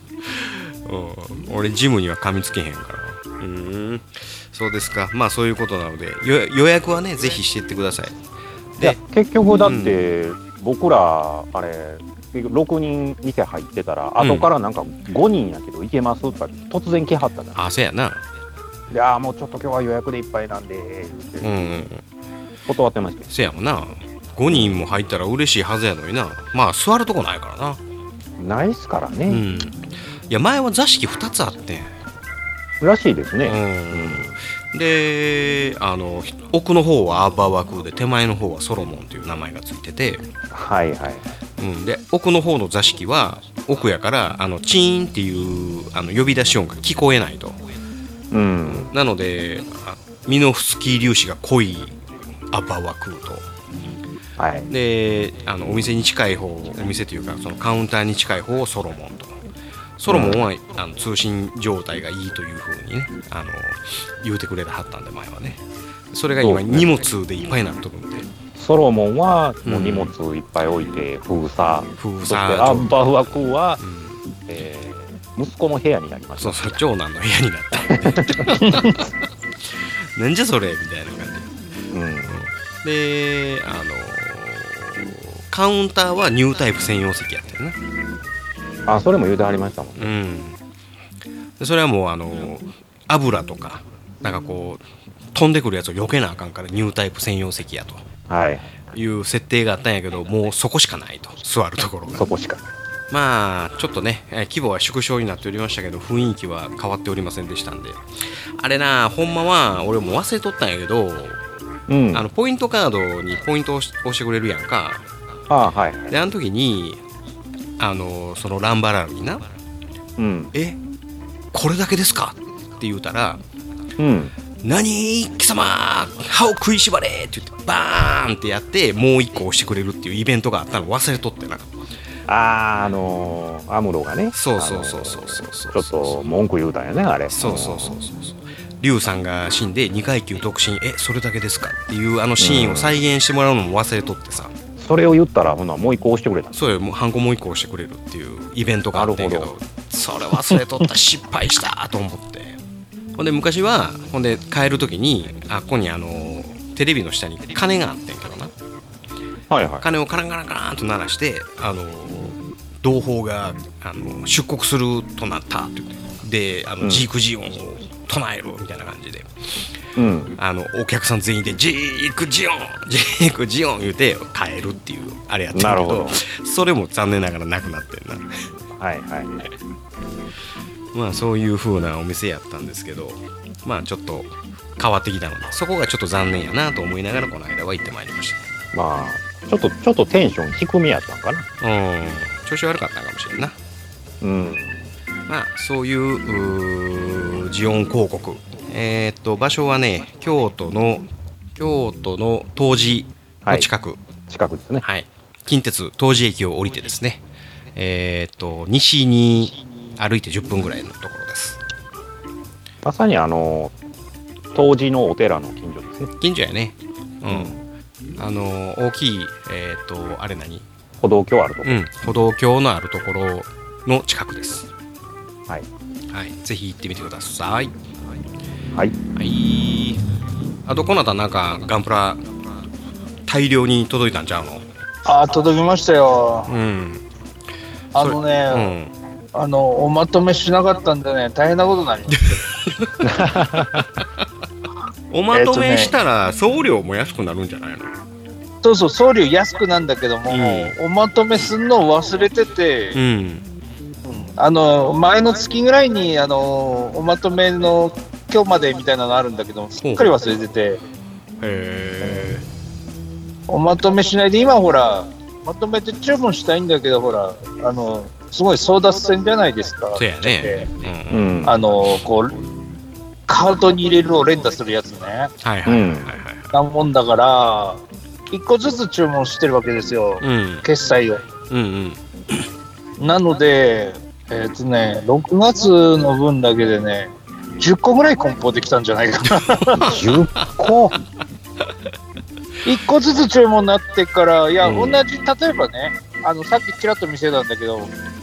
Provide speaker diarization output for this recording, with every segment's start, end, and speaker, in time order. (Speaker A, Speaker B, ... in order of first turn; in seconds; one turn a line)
Speaker A: 0.2-8.2
Speaker B: 8.8-17.6
Speaker A: 9.6-10.0
Speaker A: 14.2-14.5
Speaker A: 17.5-18.2
Speaker B: 18.9-21.5
Speaker A: 21.4-22.0
Speaker B: 22.7-23.3
Speaker A: 23.3-27.8
Speaker B: 24.5-24.8
Speaker B: 28.4-29.4
Speaker A: 29.3-31.9
Speaker B: 32.8-34.4
Speaker A: 33.4-40.2
Speaker B: 40.5-41.2
Speaker A: 41.6-47.6
Speaker B: 48.3-48.9
Speaker A: 48.6-52.0
Speaker A: 52.5-53.5
Speaker B: 54.4-54.7
Speaker A: 54.7-59.4
Speaker A: 60.0-65.6
Speaker B: 60.1-60.4
Speaker A: 66.1-68.3
Speaker B: 66.4-66.9
Speaker B: 68.5-73.8
Speaker A: 69.6-70.1
Speaker A: 72.0-73.0
Speaker A: 73.8-74.2
Speaker B: 74.5-76.8
Speaker A: 76.4-79.1
Speaker B: 77.7-78.6
Speaker A: 79.6-81.5
Speaker B: 81.9-82.5
Speaker A: 82.3-87.8
Speaker B: 88.8-90.1
Speaker A: 90.0-90.6
Speaker A: 91.6-98.0
Speaker B: 98.3-98.7
Speaker A: 98.9-102.3
Speaker B: 102.1-102.7
Speaker A: 103.1-108.0
Speaker A: 108.6-111.4
Speaker B: 111.9-112.2
Speaker A: 112.1-115.0
Speaker B: 115.5-116.1
Speaker A: 116.1-117.0
Speaker A: 117.8-119.4
Speaker B: 120.2-120.5
Speaker A: 120.5-120.8
Speaker A: 121.5-123.4
Speaker B: 124.0-124.3
Speaker A: 124.6-131.7
Speaker B: 132.3-138.0
Speaker A: 134.3-136.2
Speaker A: 137.3-144.5
Speaker B: 142.4-142.9
Speaker B: 144.8-146.6
Speaker A: 146.5-152.6
Speaker B: 148.9-149.5
Speaker A: 153.2-158.5
Speaker B: 159.5-159.8
Speaker A: 159.8-169.3
Speaker B: 166.8-167.1
Speaker B: 169.9-170.3
Speaker A: 170.4-178.5
Speaker B: 175.5-176.2
Speaker B: 178.7-179.5
Speaker A: 180.9-188.4
Speaker B: 188.7-191.4
Speaker A: 191.6-193.6
Speaker B: 194.2-194.9
Speaker A: 195.3-204.0
Speaker B: 203.4-203.7
Speaker B: 204.3-204.8
Speaker A: 204.8-207.2
Speaker A: 207.7-211.6
Speaker B: 212.8-213.7
Speaker B: 214.5-216.1
Speaker A: 216.2-217.6
Speaker B: 217.3-217.6
Speaker A: 218.2-220.7
Speaker B: 221.0-221.8
Speaker A: 221.6-224.7
Speaker A: 226.1-227.7
Speaker B: 228.7-229.0
Speaker A: 229.2-230.0
Speaker A: 230.7-232.2
Speaker A: 233.3-234.6
Speaker C: 235.0-236.5
Speaker A: 236.5-237.0
Speaker C: 237.9-238.7
Speaker A: 237.9-238.9
Speaker C: 239.3-242.5
Speaker B: 243.0-243.9
Speaker A: 245.1-247.9
Speaker C: 245.3-245.9
Speaker C: 248.6-253.0
Speaker A: 250.3-250.7
Speaker A: 252.9-253.4
Speaker C: 254.1-260.8
Speaker A: 259.8-260.1
Speaker A: 261.4-262.4
Speaker C: 263.5-270.7
Speaker A: 269.9-271.4
Speaker B: 271.1-271.6
Speaker C: 271.4-272.3
Speaker C: 273.3-275.3
Speaker A: 275.4-276.5
Speaker B: 275.6-276.1
Speaker C: 276.5-281.2
Speaker A: 280.2-280.6
Speaker A: 281.5-282.0
Speaker C: 283.0-289.8
Speaker A: 289.8-290.5
Speaker B: 289.8-290.9
Speaker C: 292.6-297.9
Speaker A: 294.6-295.0